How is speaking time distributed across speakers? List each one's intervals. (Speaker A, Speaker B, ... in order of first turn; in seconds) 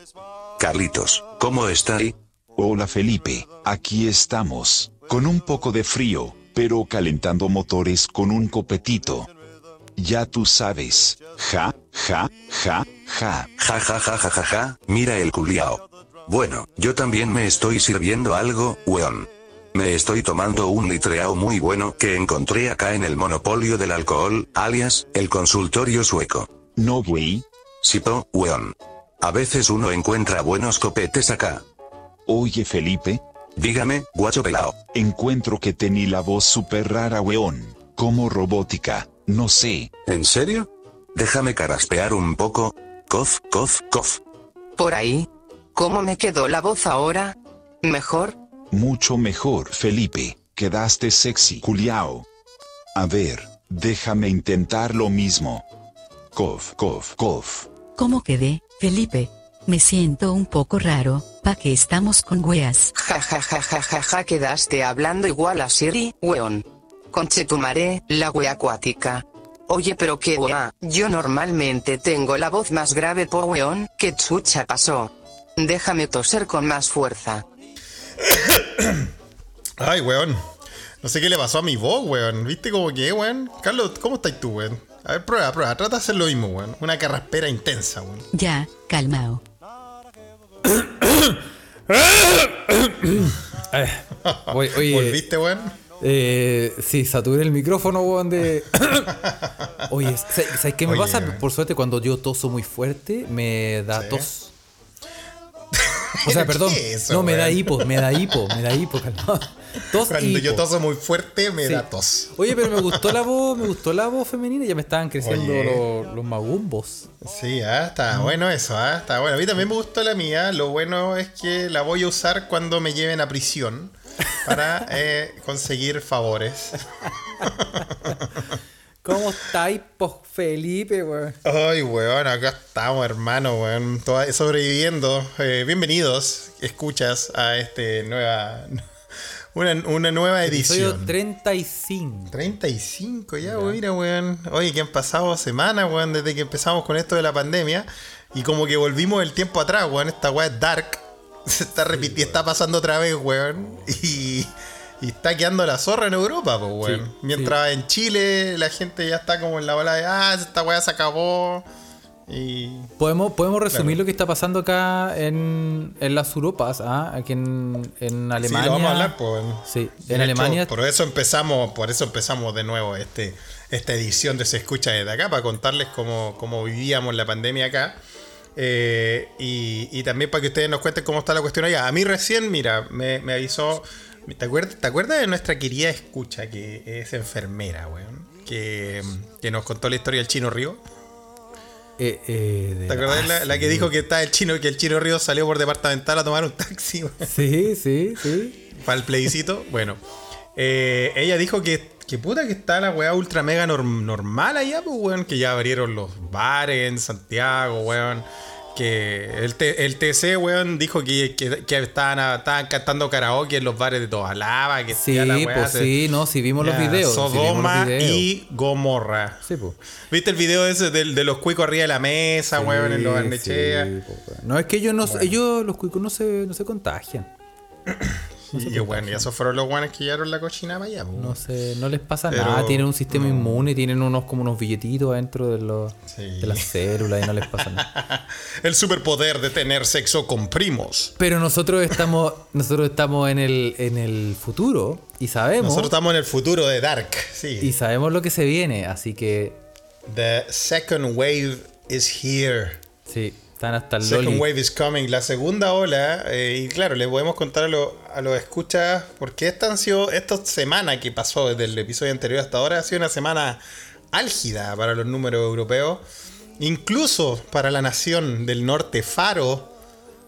Speaker A: 0.6-2.1, 13.6-26.5, 27.8-31.6, 33.6-34.8, 40.1-44.2
Speaker B: 2.6-9.3, 10.0-13.5, 26.8-27.4, 32.3-33.2, 34.9-39.9, 48.7-52.3, 53.0-55.6, 56.3-57.7
Speaker C: 44.8-48.4, 63.0-77.4
Speaker D: 58.0-62.9, 88.3-89.4
Speaker E: 78.2-79.1, 79.8-80.5, 81.0-88.3, 94.2-95.8, 99.2-99.5, 100.8-101.4, 103.9-104.3, 105.7-108.6, 109.9-113.2, 115.2-115.9, 117.2-126.9, 127.4-128.4, 131.4-138.8, 139.5-141.1, 142.3-161.7, 162.3-162.9, 163.7-164.0, 168.4-178.0, 178.6-190.8, 192.9-197.3, 198.7-200.0, 200.6-216.0, 216.6-219.4, 220.1-223.9, 225.0-225.3, 227.9-231.4, 232.3-233.7, 236.1-241.1, 245.6-247.8, 250.1-252.8, 254.0-266.1, 266.6-269.7
Speaker F: 90.7-95.2, 96.0-99.2, 99.9-104.5, 106.2-110.7, 111.7-117.1, 127.1-128.2, 129.0-131.4, 140.4-142.4, 143.4-143.8, 151.9-152.4, 153.6-154.1, 156.8-157.6, 163.0-169.1, 169.7-170.7, 192.0-193.9, 197.2-198.7, 214.9-218.3, 219.4-219.8, 222.5-227.3, 228.5-229.3, 231.2-237.9, 241.2-245.9, 247.6-249.6, 253.1-254.4